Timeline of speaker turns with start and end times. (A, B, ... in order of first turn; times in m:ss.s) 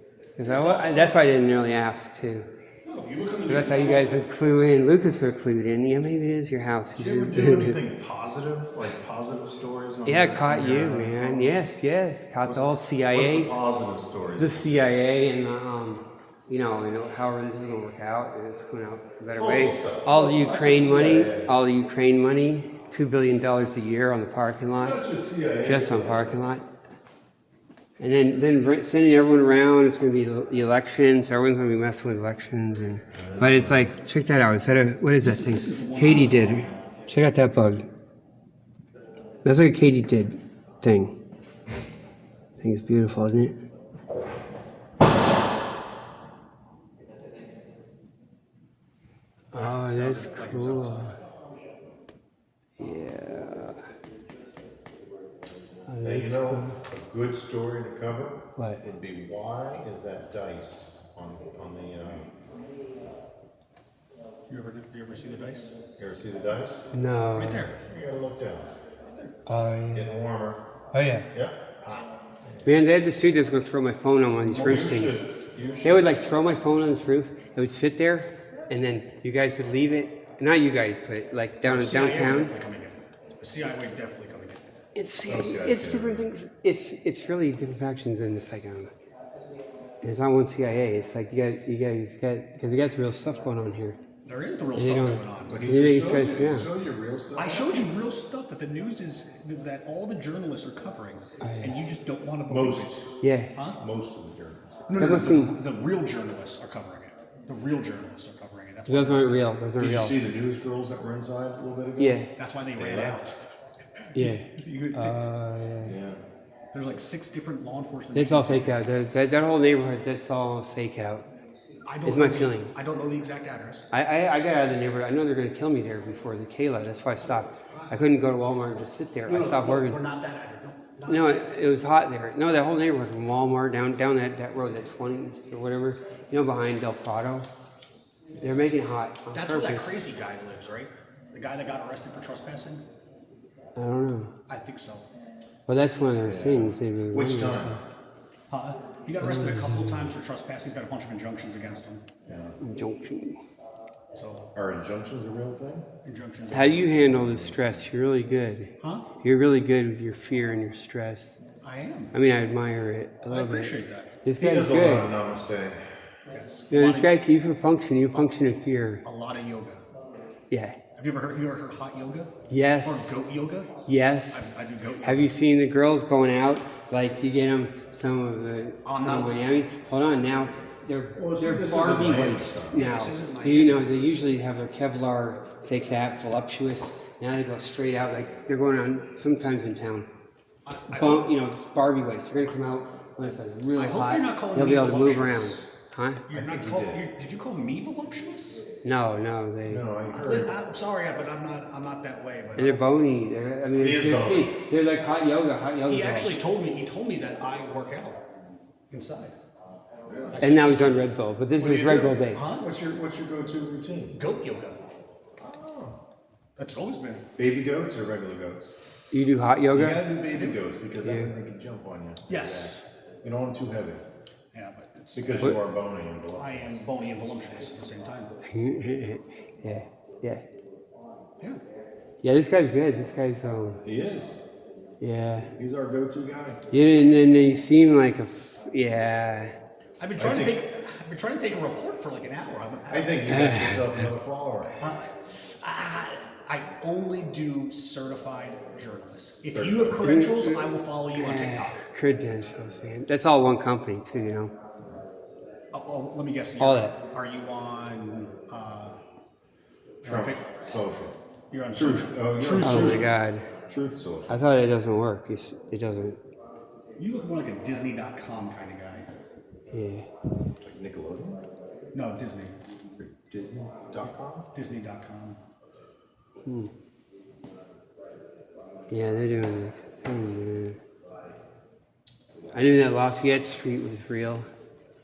0:00.4-0:02.5 A
0:00.4-0:01.4 B
0:02.8-0:04.2 B
0:03.5-0:07.8 A
0:07.0-0:11.6 C
0:10.1-0:13.5 A
0:12.4-0:14.9 C
0:14.4-0:25.0 A
0:19.4-0:21.5 C
0:24.8-0:26.3 C
0:25.6-0:26.7 A
0:28.0-0:37.9 A
0:33.1-0:33.9 C
0:35.2-0:36.8 B
0:39.4-0:41.2 A
0:42.6-0:43.6 A
0:49.5-0:51.2 A
0:49.5-0:51.2 B
0:52.8-0:53.8 A
0:55.9-0:56.8 A
0:56.0-1:02.3 C
0:58.6-0:58.8 A
1:04.5-1:05.7 B
1:06.0-1:06.9 C
1:06.9-1:07.7 A
1:07.3-1:07.8 B
1:07.7-1:08.7 C
1:09.5-1:10.2 A
1:09.9-1:10.6 C
1:10.9-1:11.3 A
1:11.3-1:12.9 C
1:12.6-1:15.2 A
1:14.4-1:16.2 C
1:15.8-1:22.5 A
1:21.6-1:24.6 B
1:25.0-1:28.9 A
1:25.3-1:26.3 C
1:30.0-1:34.0 A
1:34.2-1:35.6 B
1:34.8-1:36.7 A
1:35.5-1:37.9 C
1:37.4-1:43.8 B
1:41.4-1:41.7 A
1:42.5-1:43.1 C
1:43.2-1:43.6 A
1:43.8-1:44.9 C
1:44.9-1:49.5 B
1:45.0-1:45.6 A
1:48.9-1:50.2 A
1:49.8-1:52.2 C
1:52.0-1:52.3 A
1:52.4-1:53.4 B
1:52.8-1:53.3 C
1:54.1-1:55.2 B
1:54.2-1:56.0 A
1:55.8-1:56.2 C
1:56.7-1:58.9 B
1:58.1-2:01.3 A
2:01.8-2:03.9 B
2:02.0-2:02.7 A
2:03.9-2:10.0 A
2:09.3-2:11.4 B
2:11.1-2:17.5 A
2:18.4-2:20.0 A
2:19.3-2:22.8 B
2:23.8-2:24.3 A
2:24.5-2:25.1 B
2:25.7-2:27.8 A
2:26.2-2:27.8 C
2:28.5-2:32.1 B
2:29.2-2:30.1 A
2:32.3-2:32.6 C
2:32.6-2:33.4 A
2:34.2-2:34.5 B
2:34.5-2:35.9 C
2:36.0-2:37.0 B
2:36.5-2:41.4 A
2:36.9-2:37.9 C
2:38.8-2:39.1 B
2:41.6-2:42.2 B
2:42.1-2:45.1 A
2:43.3-2:44.2 B
2:44.4-2:46.1 C
2:46.3-2:47.2 B
2:46.7-2:49.0 A
2:49.0-2:49.8 B
2:50.5-2:50.8 A
2:51.0-2:53.8 B
2:52.5-2:53.2 A
2:53.8-3:10.1 A
2:54.3-2:55.4 B
2:58.8-2:59.6 B
3:01.2-3:02.9 C
3:02.7-3:03.9 B
3:10.6-3:11.3 B
3:10.9-3:16.3 A
3:13.8-3:15.7 B
3:16.3-3:18.6 B
3:16.3-3:17.0 C
3:18.8-3:20.0 A
3:19.7-3:20.6 C
3:20.1-3:22.8 B
3:22.6-3:26.4 A
3:23.8-3:24.5 C
3:25.9-3:28.2 B
3:28.9-3:29.3 B
3:30.1-3:30.4 C
3:30.3-3:31.1 B
3:30.4-3:32.5 A
3:31.6-3:34.2 C
3:32.3-3:32.7 B
3:34.1-3:34.8 B
3:35.4-3:36.0 C
3:36.6-3:37.3 B
3:37.4-3:38.6 C
3:39.1-3:40.1 A
3:39.7-3:44.0 C
3:40.3-3:40.6 B
3:41.0-3:41.3 A
3:42.3-3:42.9 B
3:44.5-3:45.6 B
3:45.1-3:46.8 C
3:46.4-3:48.4 B
3:48.4-3:50.4 A
3:52.2-3:53.8 A
3:53.8-3:54.4 C
3:55.0-3:55.5 A
3:55.6-3:56.6 C
3:56.7-3:59.6 A
4:00.0-4:03.8 B
4:00.2-4:00.6 C
4:02.9-4:04.8 C
4:03.3-4:04.1 A
4:04.8-4:11.9 B
4:09.5-4:10.2 C
4:10.0-4:14.5 A
4:15.7-4:19.0 B
4:16.6-4:17.0 A
4:20.0-4:20.6 B
4:20.0-4:21.2 C
4:21.5-4:23.1 B
4:21.7-4:23.1 C
4:22.6-4:23.5 A
4:23.7-4:24.4 C
4:24.3-4:26.2 A
4:27.0-4:29.1 B
4:29.7-4:30.1 A
4:30.6-4:31.4 C
4:31.9-4:32.6 B
4:33.0-4:34.5 C
4:34.5-4:35.4 B
4:36.4-4:36.7 A
4:38.9-4:40.8 A
4:42.5-4:44.5 A